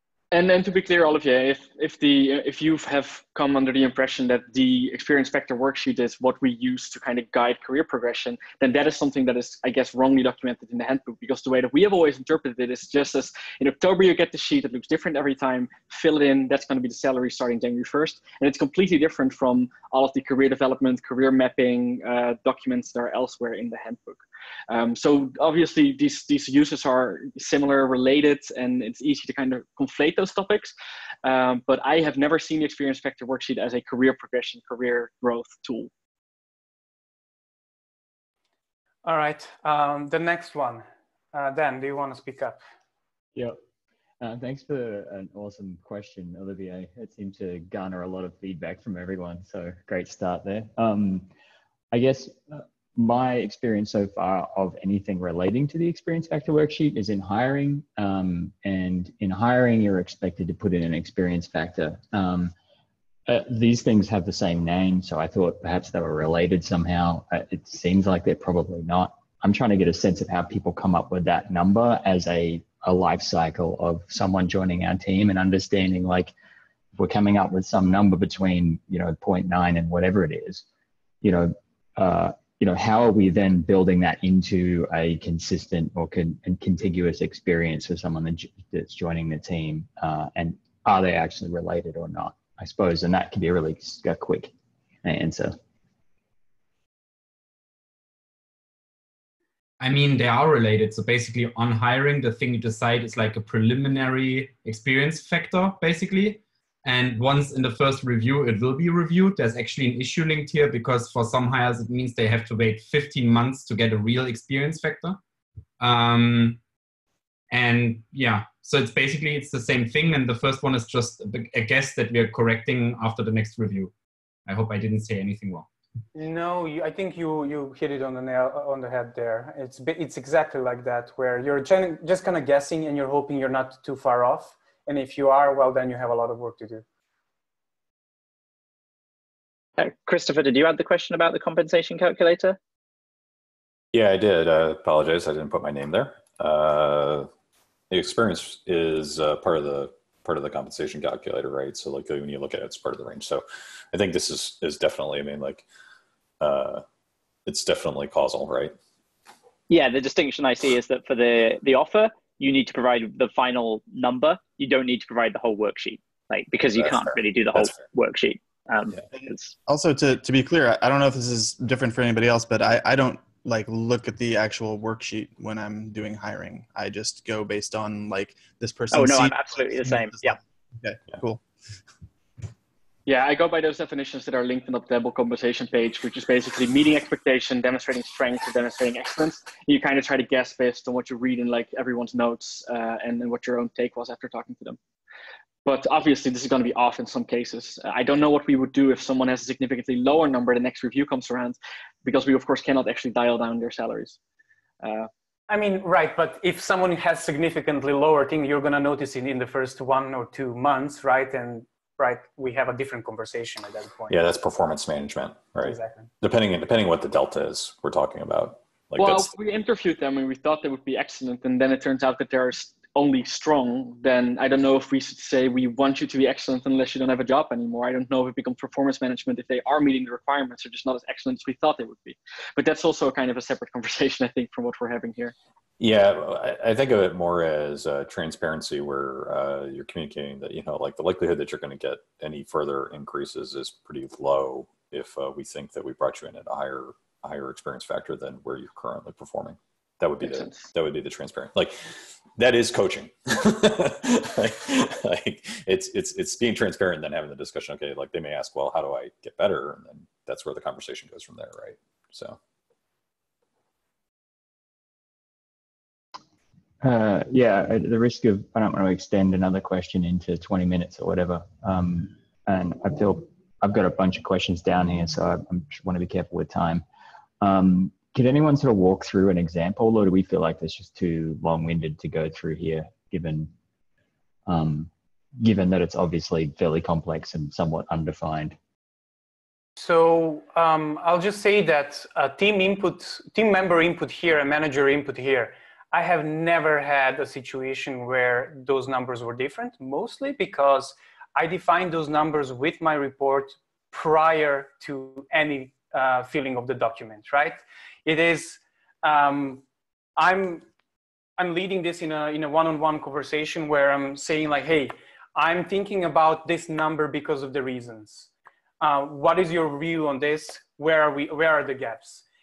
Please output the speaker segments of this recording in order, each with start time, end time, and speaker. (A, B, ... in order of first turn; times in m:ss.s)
0:00.3-0:30.7 A
0:31.2-0:35.9 A
0:39.0-0:42.6 B
0:44.2-0:51.3 C
0:51.9-1:02.5 C
1:03.3-1:16.3 C
1:17.0-1:20.6 C
1:21.2-1:34.5 C
1:35.0-1:35.6 C
1:39.8-1:55.2 D
1:55.8-1:56.6 D
1:57.5-2:03.9 D
2:04.4-2:05.7 D
2:06.1-2:16.8 B
2:19.8-2:22.6 E
2:23.9-2:27.3 F
2:27.9-2:35.6 F
2:36.4-2:36.8 F
2:37.4-2:38.7 F
2:39.7-2:49.5 E
2:46.8-2:47.9 F
2:49.1-3:01.4 G
2:58.9-3:00.4 E
3:03.1-3:14.8 A
3:15.6-3:24.2 A
3:24.8-3:25.1 A
3:25.5-3:34.1 B
3:34.1-3:39.3 F
3:35.6-3:36.1 B
3:39.0-3:55.3 A
3:55.8-4:22.4 F
4:10.2-4:10.7 A
4:26.8-4:36.8 C
4:37.4-4:43.5 C
4:44.4-4:44.9 C
4:45.4-4:48.6 C
4:49.8-5:09.6 B
5:10.2-5:10.6 B
5:11.4-5:18.3 B
5:18.8-5:22.2 B